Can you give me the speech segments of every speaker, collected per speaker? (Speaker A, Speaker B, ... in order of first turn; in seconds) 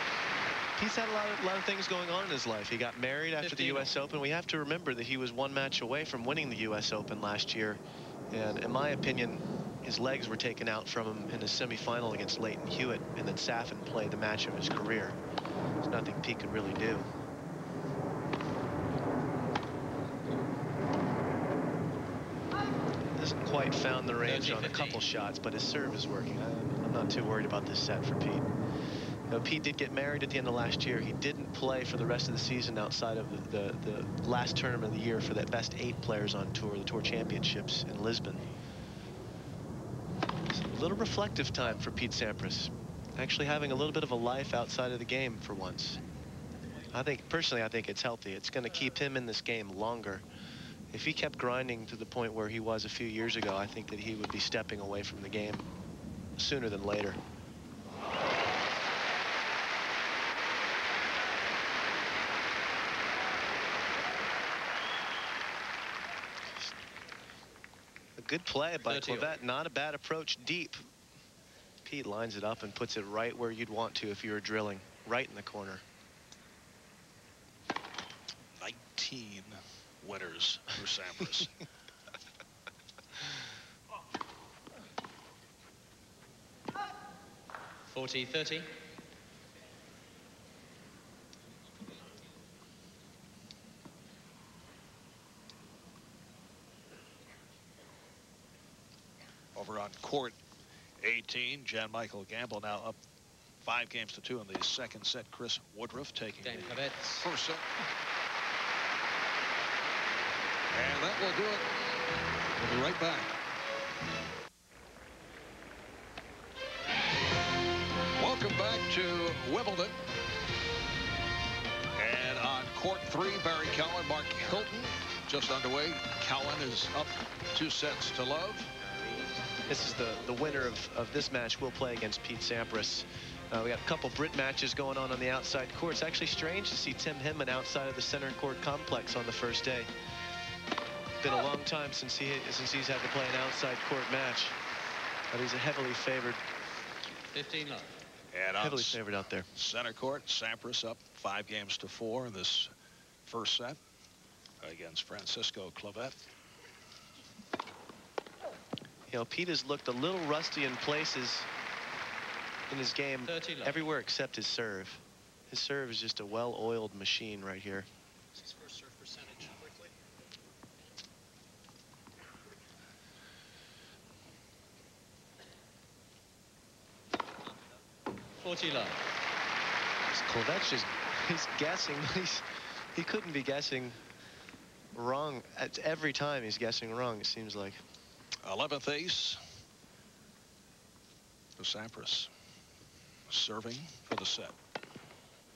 Speaker A: 0.8-7.8, 8.3-15.2, 15.8-17.1, 23.1-28.5, 29.3-38.5, 40.5-46.0, 46.9-50.3, 50.9-55.7, 56.4-57.2, 68.2-70.8, 71.8-75.8, 129.7-139.9, 141.2-144.6, 145.3-146.4, 148.6-149.5, 159.1-161.5, 162.7-167.9, 180.1-184.0, 184.9-187.8
Speaker B: 3.4-3.9, 24.2-25.1, 68.8-69.4, 87.9-88.7, 106.4-107.3, 147.3-147.9, 163.2-163.9, 178.4-179.1
Speaker C: 78.6-81.6, 99.5-100.4, 101.0-103.0, 103.6-107.7, 110.7-111.7, 112.6-113.3, 118.2-120.0, 122.0-128.7, 148.3-149.0, 149.6-152.7, 153.3-153.8, 154.6-156.2, 188.4-189.4, 191.6-192.3, 193.3-194.6